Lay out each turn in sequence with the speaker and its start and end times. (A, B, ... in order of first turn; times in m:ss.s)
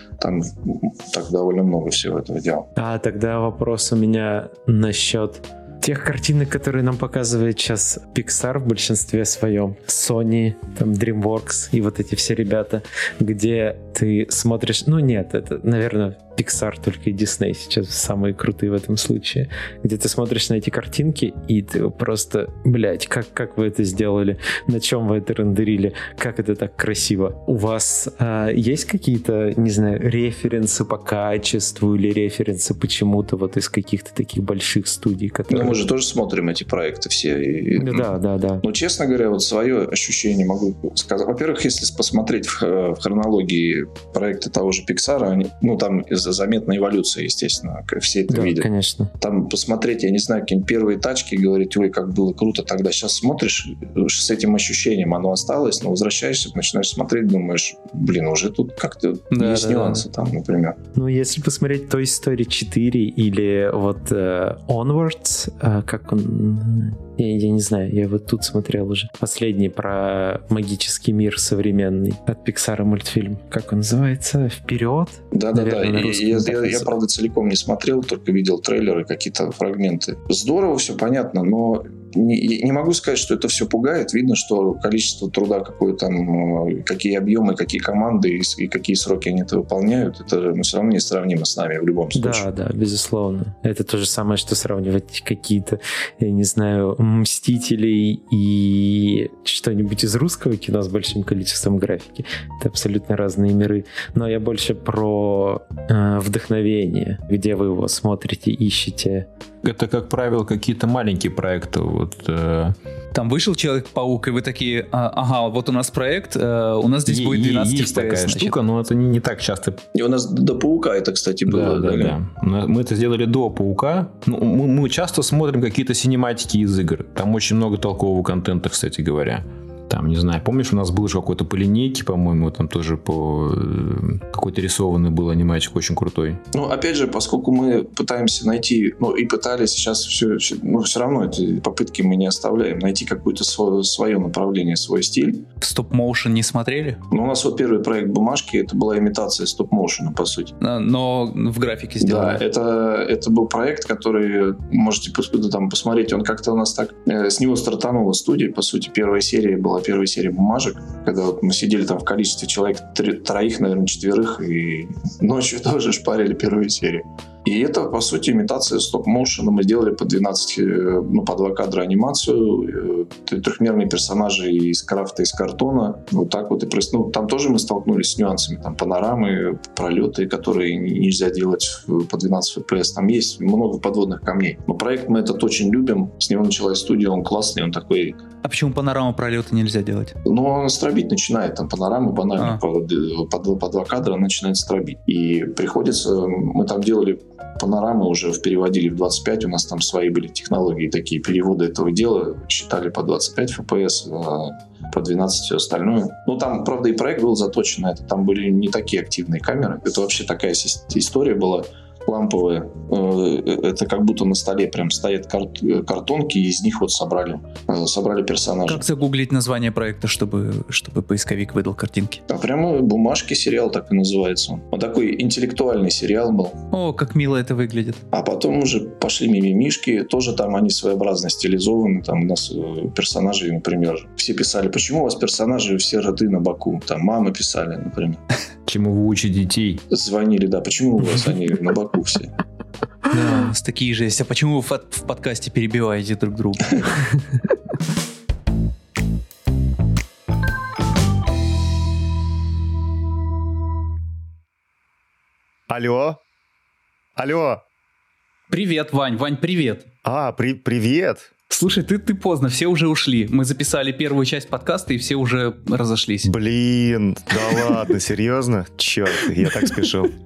0:00.2-0:02.7 A
0:02.8-0:35.8 B
0:35.5-0:48.7 A
0:37.8-0:38.6 B
0:48.3-0:49.1 B
0:49.2-1:00.8 A
0:59.3-1:00.0 C
1:00.9-1:16.9 B
1:15.3-1:32.4 A
1:32.1-1:49.3 B
1:49.6-1:52.7 D
1:53.1-1:58.6 C
1:57.1-1:59.8 D
1:59.9-2:02.2 A
2:01.5-2:16.4 D
2:16.5-2:25.4 A
2:25.6-2:27.0 C
2:27.1-2:30.5 A
2:30.6-2:32.4 C
2:32.0-3:08.2 A
3:08.4-3:10.1 C
3:10.2-3:38.8 A
3:38.7-3:42.2 C
3:42.3-3:46.6 A
3:46.7-3:48.0 C
3:48.1-3:58.2 A
3:58.6-3:59.8 D
3:59.9-4:02.3 A
4:03.1-4:07.0 C
4:15.7-4:16.2 E
4:17.2-4:17.6 E
4:18.5-4:19.9 C
4:20.0-4:21.3 E
4:21.5-4:26.3 C
4:26.2-4:30.1 E
4:29.4-4:29.8 C